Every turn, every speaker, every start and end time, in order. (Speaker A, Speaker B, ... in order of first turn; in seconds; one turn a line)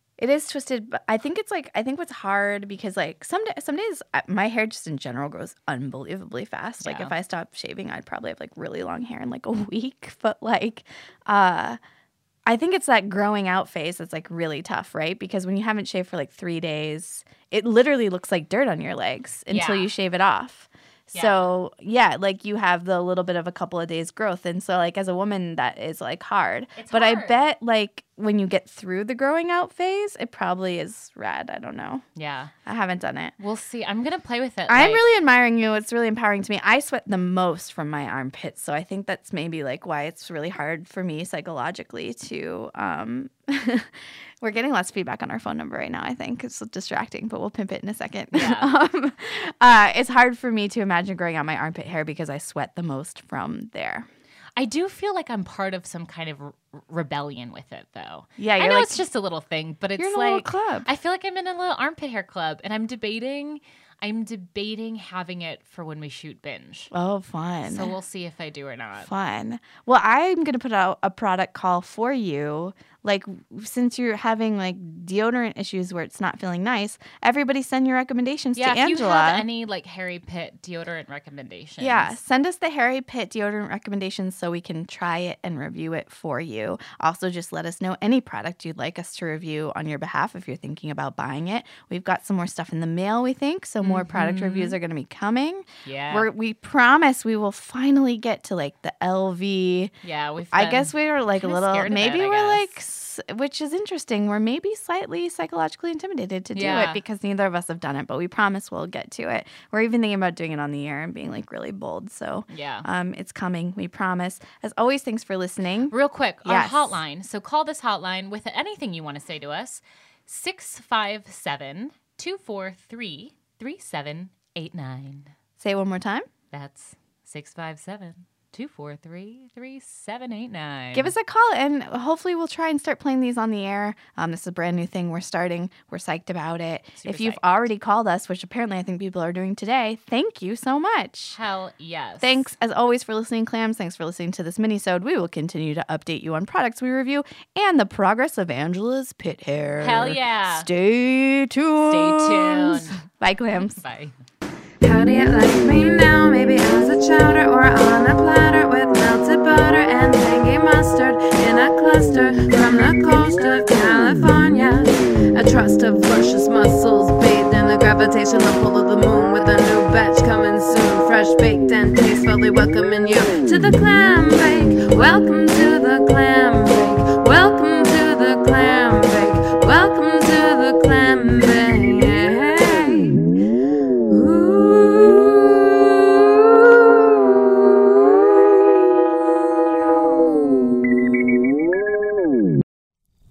Speaker A: 0.2-11.8
Speaker B: 6.8-7.1
Speaker A: 12.4-32.0
Speaker B: 19.5-19.9
Speaker B: 21.1-21.5
Speaker B: 26.7-27.4
Speaker B: 32.1-32.5
Speaker A: 32.6-33.3
Speaker B: 33.4-35.0
Speaker A: 34.7-43.9
Speaker A: 44.4-54.0
Speaker B: 48.3-48.7
Speaker B: 54.5-66.9
Speaker A: 58.4-59.0
Speaker A: 60.0-60.9
Speaker A: 66.9-67.9
Speaker B: 67.6-69.1
Speaker A: 69.0-79.5
Speaker B: 78.5-82.2
Speaker A: 81.8-99.9
Speaker B: 93.8-94.8
Speaker B: 95.8-96.3
Speaker B: 100.0-102.8
Speaker A: 100.5-117.0
Speaker B: 106.5-107.0
Speaker B: 112.5-112.9
Speaker B: 115.9-125.3
Speaker A: 125.6-126.2
Speaker B: 126.5-131.1
Speaker A: 130.9-141.4
Speaker B: 137.0-137.4
Speaker B: 141.3-142.5
Speaker A: 142.2-153.8
Speaker B: 149.8-150.7
Speaker B: 151.8-154.1
Speaker C: 154.8-183.3
Speaker C: 184.1-188.3